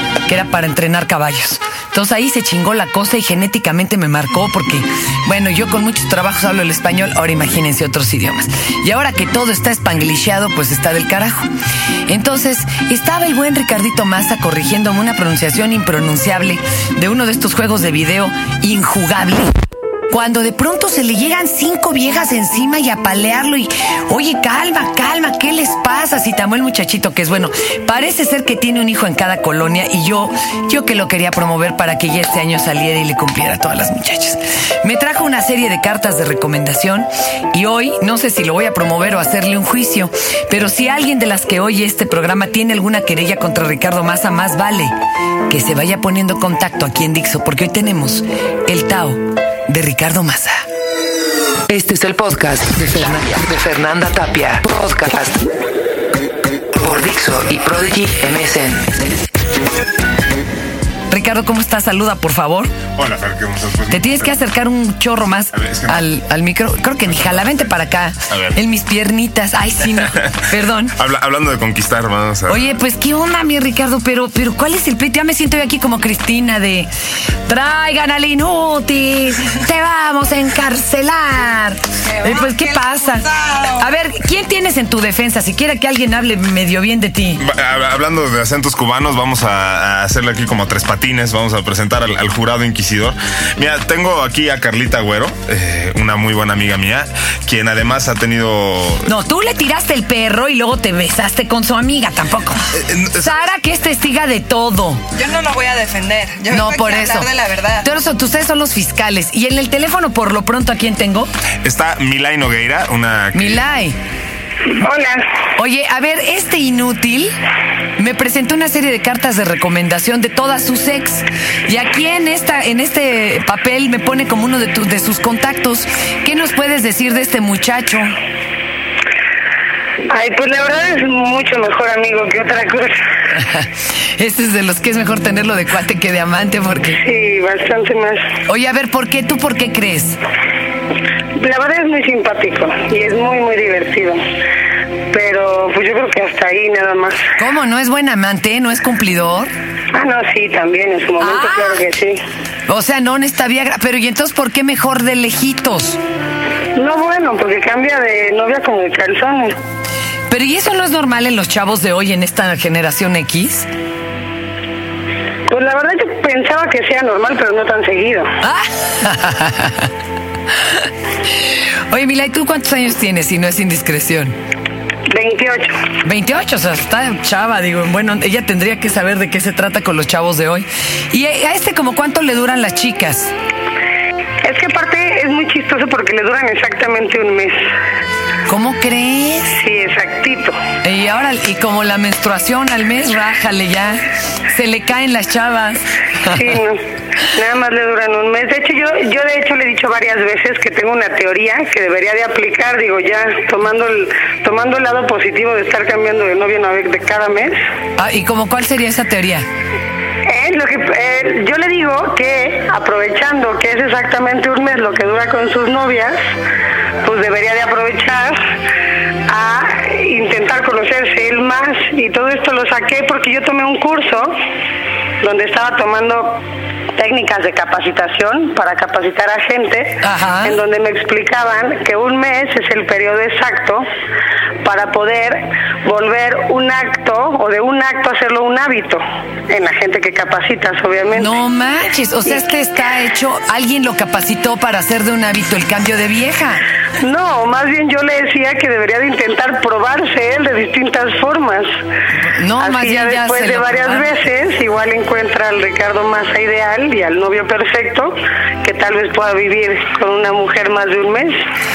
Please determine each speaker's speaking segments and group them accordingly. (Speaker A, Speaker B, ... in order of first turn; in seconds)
Speaker A: 0.2-11.5, 12.1-19.5, 20.1-44.9, 45.5-50.6, 51.7-55.4, 56.7-59.0, 61.1-62.7, 63.9-71.0, 72.5-76.9, 77.5-87.4, 99.0-105.0, 106.5-107.3, 107.8-111.3, 113.3-114.0, 115.6-117.3, 118.0-128.1, 133.3-137.0, 138.5-140.2, 147.4-149.5, 151.2-151.8, 152.7-156.0, 160.3-163.7, 168.4-169.9, 170.6-174.3, 176.0-183.3, 188.5-189.5, 190.8-196.4, 208.0-209.5, 230.0-230.6, 241.1-246.6, 252.4-254.2
Speaker B: 62.9-64.3, 65.5-66.0, 67.0-67.7, 68.3-68.6, 70.9-72.7, 87.4-99.1, 102.7-103.5, 111.6-113.7
Speaker C: 82.0-83.9, 105.1-107.9
Speaker D: 114.7-115.2, 130.1-133.0, 137.0-138.2, 141.3-144.2, 145.1-147.2, 149.9-152.2, 156.8-159.6, 165.5-168.3, 175.1-175.8, 184.4-187.7, 189.5-190.6, 196.3-207.6, 210.2-216.2, 217.0-218.4, 219.3-224.3, 225.2-226.4, 226.9-233.8, 234.6-241.3, 247.0-251.8, 252.6-261.4